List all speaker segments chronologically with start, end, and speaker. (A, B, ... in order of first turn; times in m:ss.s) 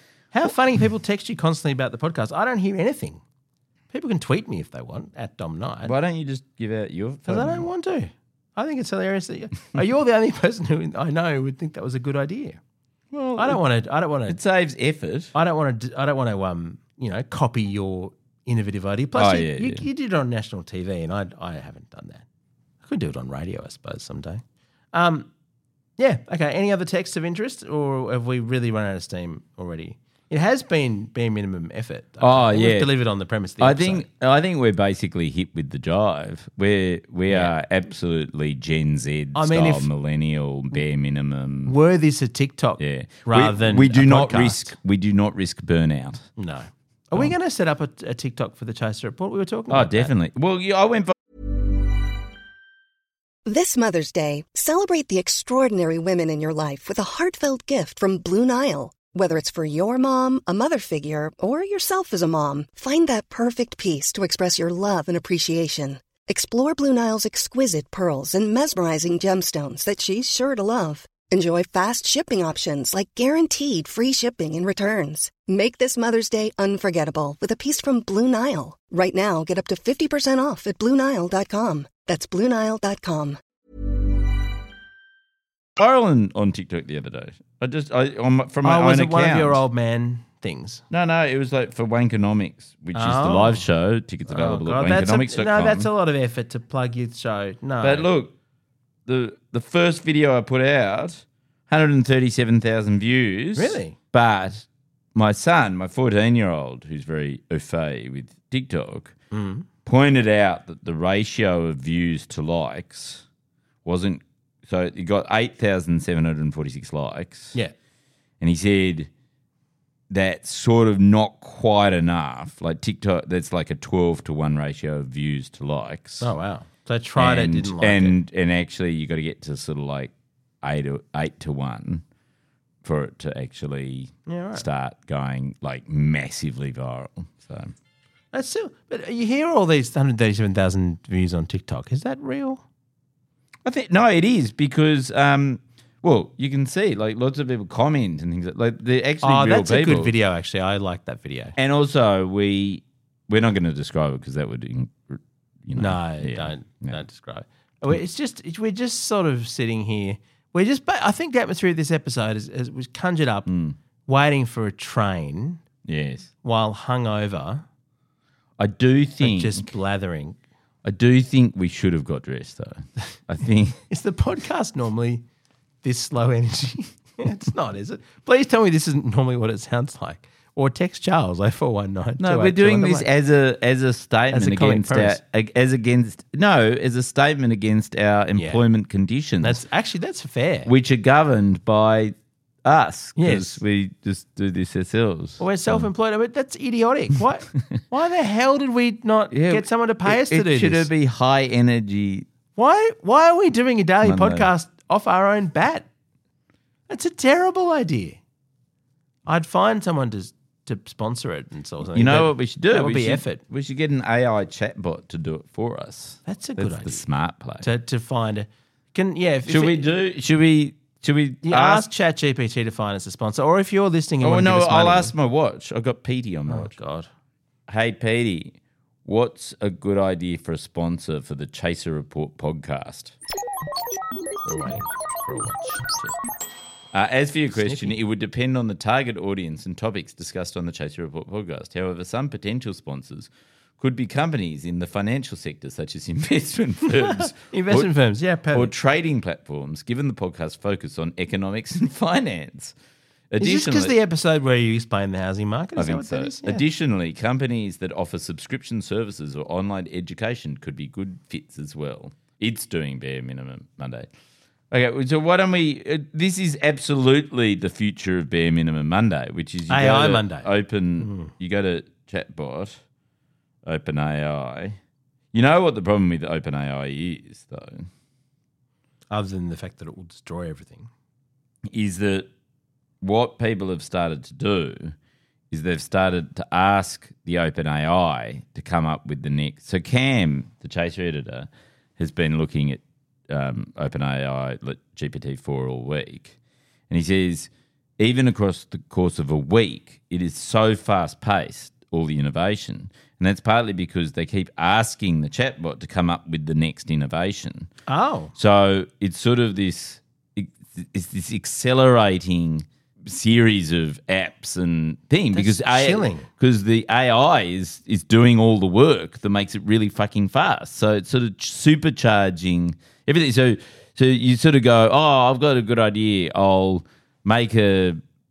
0:00.3-0:03.2 A
0:03.9-0:05.9 A
0:05.8-0:07.7 B
0:07.3-0:12.6 A
0:13.1-0:13.6 B
0:13.4-0:14.4 A
0:14.3-0:15.3 B
0:15.3-0:22.2 A
0:19.1-0:19.8 B
0:22.8-0:24.4 A
0:24.9-0:25.3 A
0:26.0-0:34.0 A
0:32.2-0:32.9 B
0:33.6-0:41.8 B
0:39.3-0:39.9 A
0:41.6-0:44.7 A
0:42.8-0:46.3 B
0:46.4-0:50.1 A
0:49.7-0:51.2 B
0:53.4-1:23.4 C
1:25.8-1:29.6 B
1:28.6-1:30.8 A
1:30.9-1:35.9 B
1:32.9-1:33.6 A
1:34.3-1:38.1 A
1:37.8-1:38.3 B
1:39.0-1:49.1 B
1:43.6-1:44.0 A
1:49.3-1:49.6 A
1:49.8-1:53.2 B
1:53.8-1:57.6 B
1:58.4-1:59.1 B
2:00.1-2:06.3 B
2:06.2-2:08.2 A
2:07.2-2:12.0 B
2:12.8-2:17.7 B
2:14.2-2:14.6 A
2:18.3-2:22.6 A
2:23.6-2:30.1 B
2:29.2-2:31.6 A
2:31.6-2:37.0 B
2:35.7-2:43.5 A
2:43.4-2:43.8 B
2:44.0-2:45.6 A
2:45.8-2:46.3 B
2:46.4-2:47.6 A
2:48.6-2:49.7 B
2:49.2-2:50.4 A
2:50.8-2:53.8 B
2:53.9-2:55.2 A
2:55.8-3:03.1 A
3:02.2-3:09.6 B
3:04.3-3:05.2 A
3:08.3-3:08.6 A
3:09.4-3:10.7 A
3:10.6-3:15.9 B
3:13.2-3:13.6 A
3:15.4-3:20.9 A
3:19.3-3:22.3 B
3:22.6-3:25.9 A
3:24.0-3:24.5 B
3:26.9-3:28.2 A
3:29.2-3:33.4 A
3:31.9-3:37.7 B
3:36.2-3:37.0 A
3:37.6-3:39.9 A
3:39.5-3:41.9 B
3:41.4-3:45.1 A
3:44.2-3:46.8 B
3:46.5-3:47.1 A
3:47.7-3:53.1 B
3:54.4-3:55.9 A
3:54.7-3:56.1 B
3:56.9-4:07.9 B
3:57.5-3:58.0 A
4:07.0-4:08.7 A
4:08.5-4:12.7 B
4:13.3-4:13.9 B
4:13.4-4:16.6 A
4:15.8-4:24.1 B
4:24.7-4:32.8 B
4:29.7-4:31.3 A
4:33.6-4:34.8 B
4:35.3-4:37.9 B
4:39.1-4:40.9 A
4:41.7-4:42.3 B
4:43.0-4:45.0 B
4:45.5-4:56.4 B
4:56.9-5:07.7 B
5:07.9-5:08.3 A
5:08.4-5:28.0 B
5:15.3-5:16.3 A